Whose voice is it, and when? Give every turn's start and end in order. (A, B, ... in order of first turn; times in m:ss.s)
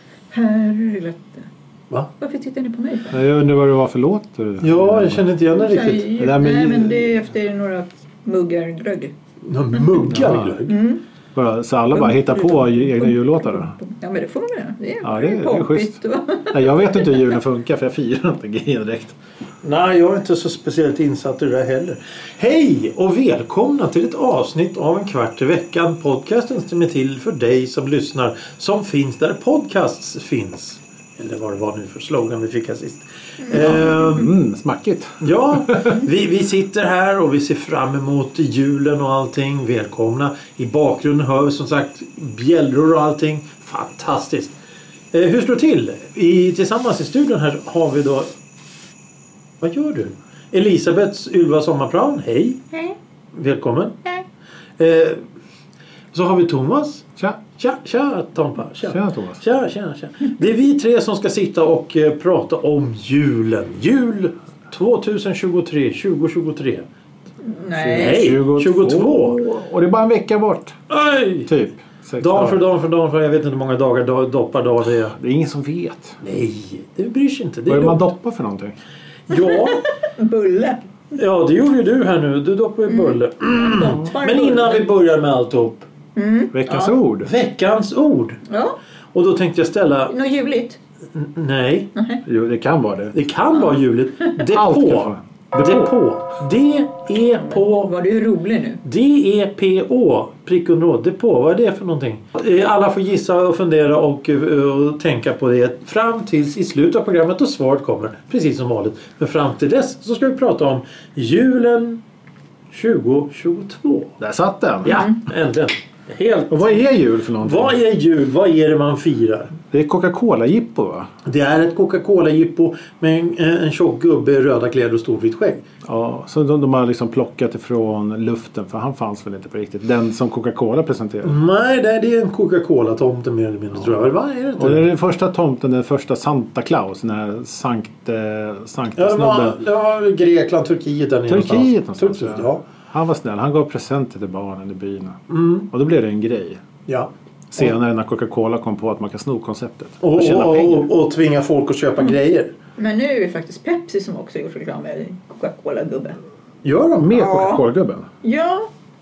0:00.3-0:01.5 A
0:02.2-0:03.2 A
0:03.1-0:05.3 B
0:04.6-0:06.2 C
0:05.5-0:09.1 A
0:06.2-0:07.1 B
0:09.4-0:10.8 C
0:10.1-0:10.6 B
0:10.7-0:11.0 A
0:11.4-0:13.8 B
0:11.9-0:17.4 A
0:15.0-0:16.0 B
0:16.5-0:19.2 B
0:19.6-0:34.3 C
0:33.5-0:36.0 B
0:35.2-0:44.6 C
0:45.1-0:48.3 C
0:49.6-0:52.6 C
0:53.3-0:54.0 C
0:54.8-0:55.2 C
0:56.1-1:06.8 C
0:58.8-0:59.4 B
1:07.4-1:08.4 A
1:07.8-1:10.8 B
1:07.9-1:09.4 C
1:10.9-1:11.5 C
1:11.5-1:12.6 B
1:12.2-1:15.2 C
1:15.2-1:16.2 B
1:16.2-1:18.0 C
1:17.7-1:18.8 B
1:19.3-1:19.9 C
1:19.3-1:20.8 A
1:21.2-1:25.9 C
1:22.9-1:24.8 A
1:26.2-1:27.0 A
1:26.5-1:27.3 B
1:27.2-1:28.4 C
1:28.5-1:28.8 A
1:29.1-1:30.1 C
1:30.1-1:30.8 A
1:31.2-1:31.9 C
1:32.0-1:32.2 A
1:32.2-1:33.2 B
1:33.1-1:37.9 C
1:34.4-1:35.9 B
1:37.4-1:38.8 A
1:38.8-1:52.0 C
1:52.7-1:54.2 C
1:54.2-1:55.0 B
1:54.8-1:56.7 C
1:54.9-1:55.2 A
1:56.5-1:57.8 B
1:57.4-1:59.6 C
1:59.7-2:01.1 B
2:01.2-2:05.6 C
2:05.8-2:11.4 B
2:11.2-2:14.8 C
2:14.6-2:19.6 B
2:19.0-2:22.6 C
2:21.3-2:26.6 B
2:25.3-2:25.7 C
2:27.5-2:30.9 B
2:30.0-2:32.5 C
2:32.8-2:36.2 A
2:36.6-2:37.1 C
2:37.0-2:38.1 B
2:37.1-2:37.6 A
2:38.2-2:38.7 A